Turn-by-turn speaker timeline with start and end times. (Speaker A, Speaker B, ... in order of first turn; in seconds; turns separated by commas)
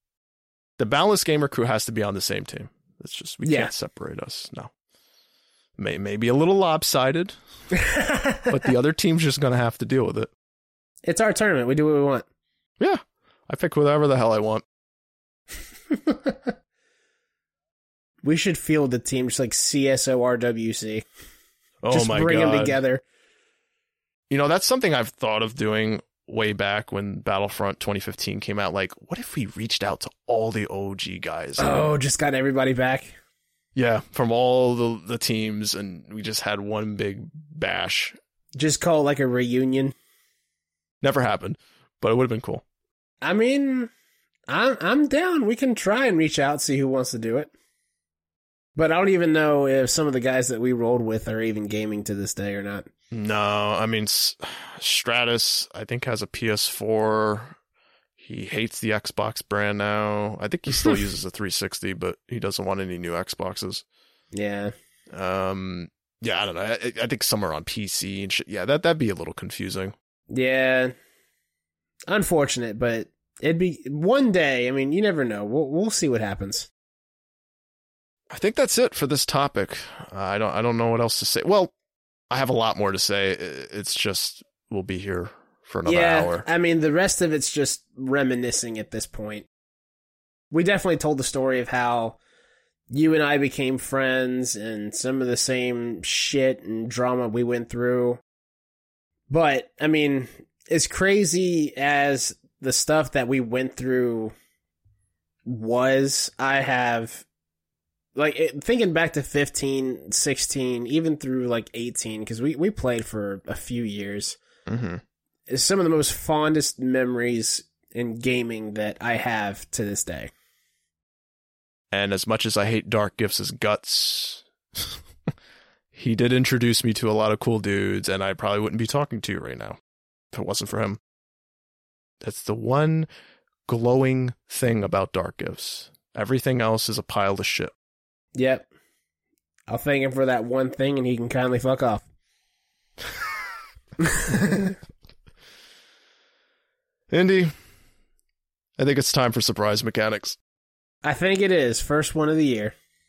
Speaker A: 0.8-4.7, Speaker B: 3.4-3.7, Speaker A: 5.8-7.3, Speaker B: 7.7-8.5, Speaker A: 8.5-10.3, Speaker B: 11.0-12.2, Speaker A: 12.8-14.6, Speaker B: 15.9-16.5, Speaker B: 18.2-21.1, Speaker A: 21.8-22.8, Speaker B: 21.9-23.0, Speaker A: 24.3-31.9, Speaker B: 31.6-33.2, Speaker A: 33.7-38.2, Speaker B: 38.5-39.9, Speaker A: 41.0-42.6, Speaker B: 43.2-43.9, Speaker B: 44.5-47.5, Speaker B: 48.8-52.9, Speaker A: 53.1-57.5, Speaker A: 58.2-63.8, Speaker B: 64.3-64.7, Speaker A: 65.1-69.9, Speaker B: 70.3-70.9, Speaker B: 72.1-76.7, Speaker A: 78.3-81.7, Speaker A: 82.3-86.4, Speaker B: 85.8-89.5, Speaker B: 90.5-92.2, Speaker B: 92.9-98.2, Speaker B: 99.3-104.3, Speaker B: 105.5-107.2, Speaker B: 108.2-114.4, Speaker A: 114.7-115.0, Speaker B: 115.5-120.3, Speaker A: 121.9-125.0, Speaker A: 125.9-129.8, Speaker A: 130.3-131.0, Speaker A: 132.2-133.1, Speaker A: 133.7-137.7, Speaker B: 138.3-138.7, Speaker B: 139.7-142.0, Speaker B: 144.0-144.7, Speaker A: 147.1-147.5, Speaker A: 148.8-150.4, Speaker B: 151.0-152.7